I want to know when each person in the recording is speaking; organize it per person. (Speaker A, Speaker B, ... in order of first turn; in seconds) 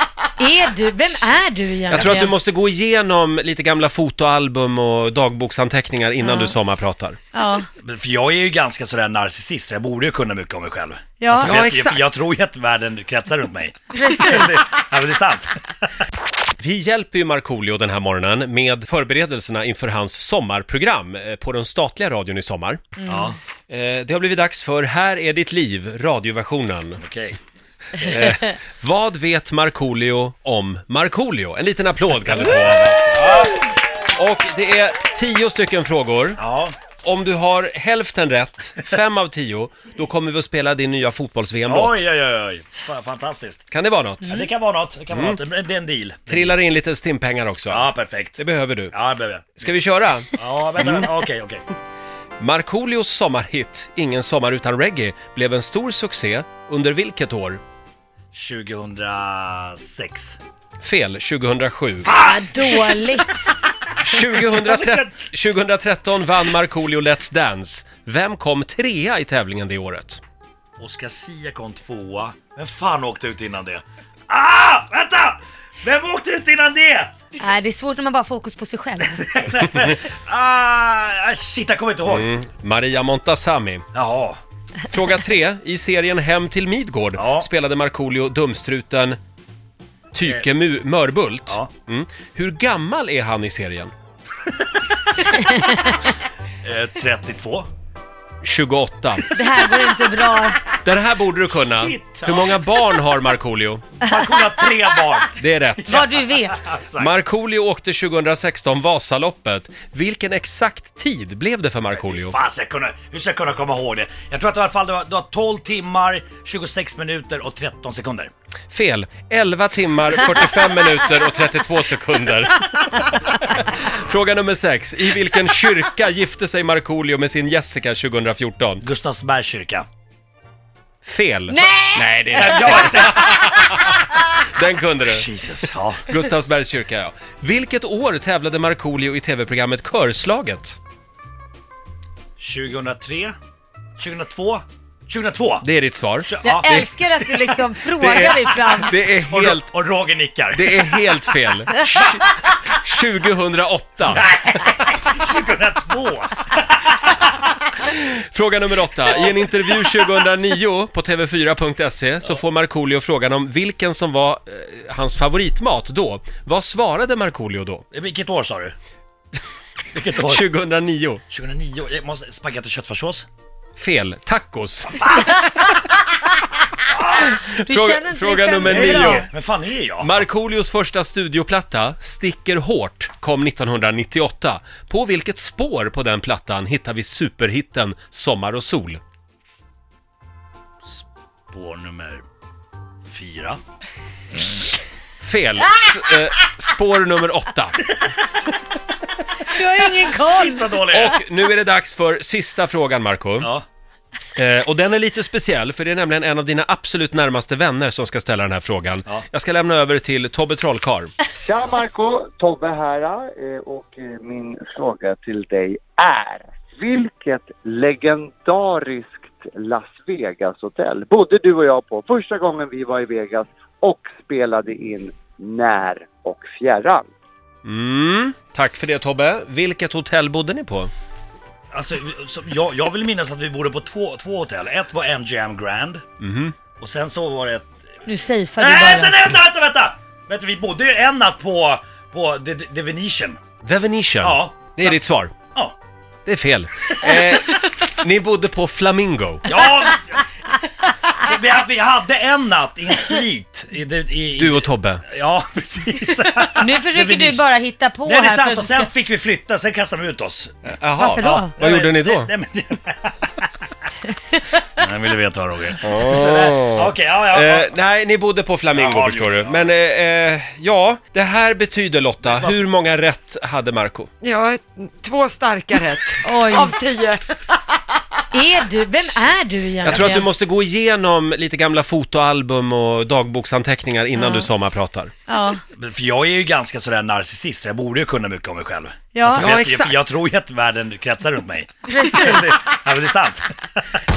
Speaker A: 0.4-2.3, 6.2-6.5, 7.3-7.7, 11.2-11.5, 13.9-14.5, 62.1-63.5, 77.4-79.3, 95.5-96.0, 99.3-100.6, 105.8-106.6, 131.5-132.9, 146.4-148.9, 177.4-179.3, 199.4-200.8, 238.1-239.3, 256.6-258.9, 261.0-261.5, 276.2-276.7, 278.3-280.3, 284.1-284.5, 285.3-285.6, 289.1-289.5, 291.9-292.5
Speaker B: 1.9-7.2, 11.4-12.0, 16.6-22.8, 23.7-27.0, 28.0-36.4, 37.0-42.1, 43.7-44.4, 45.1-45.4, 46.3-47.9, 48.4-48.9, 49.5-50.3, 52.4-57.6, 60.8-62.1, 64.0-70.2, 82.1-83.8, 84.9-89.2, 90.1-93.9, 98.4-99.3, 100.8-103.8, 105.4-106.0, 107.0-112.3, 118.7-128.8, 131.0-135.2, 136.1-140.8, 145.6-146.9, 148.0-149.7, 150.5-154.3, 157.8-167.8, 170.2-171.2, 173.8-175.3, 177.3-179.3, 180.0-189.0, 195.2-197.9, 200.9-203.5, 204.3-211.1, 227.6-230.9, 236.2-236.5, 243.6-245.3, 246.2-249.5, 254.4-255.0, 260.7-262.3, 265.8-274.1, 279.8-285.1, 289.3-290.0
Speaker C: 7.8-16.0, 23.1-23.4, 27.0-27.4, 28.0-28.2, 36.4-36.7, 41.6-43.7, 44.2-46.5, 47.7-49.6, 50.4-51.6, 58.3-60.4, 62.0-63.1, 64.1-65.1, 70.8-77.1, 79.2-82.3, 83.9-84.4, 87.2-87.5, 96.6-97.7, 101.6-102.8, 104.0-107.1, 111.9-118.3, 128.8-129.8, 132.3-133.8, 135.0-136.0, 142.4-143.3, 144.0-145.7, 146.2-147.6, 149.2-151.1, 154.1-157.4, 159.2-160.1, 167.9-168.7, 169.9-170.4, 171.3-173.3, 175.0-175.4, 176.9-177.4, 178.7-180.2, 190.8-192.2, 193.0-193.6, 200.1-201.2, 203.4-203.6, 231.7-236.0, 236.8-238.0, 238.6-243.4, 244.2-245.0, 247.1-247.4, 249.5-250.2, 251.1-257.4, 258.0-260.5, 261.1-263.7, 264.7-267.7, 268.7-269.7, 272.2-272.6, 279.8-280.2, 285.7-293.8
Speaker D: 211.4-227.1
Speaker E: 274.2-277.2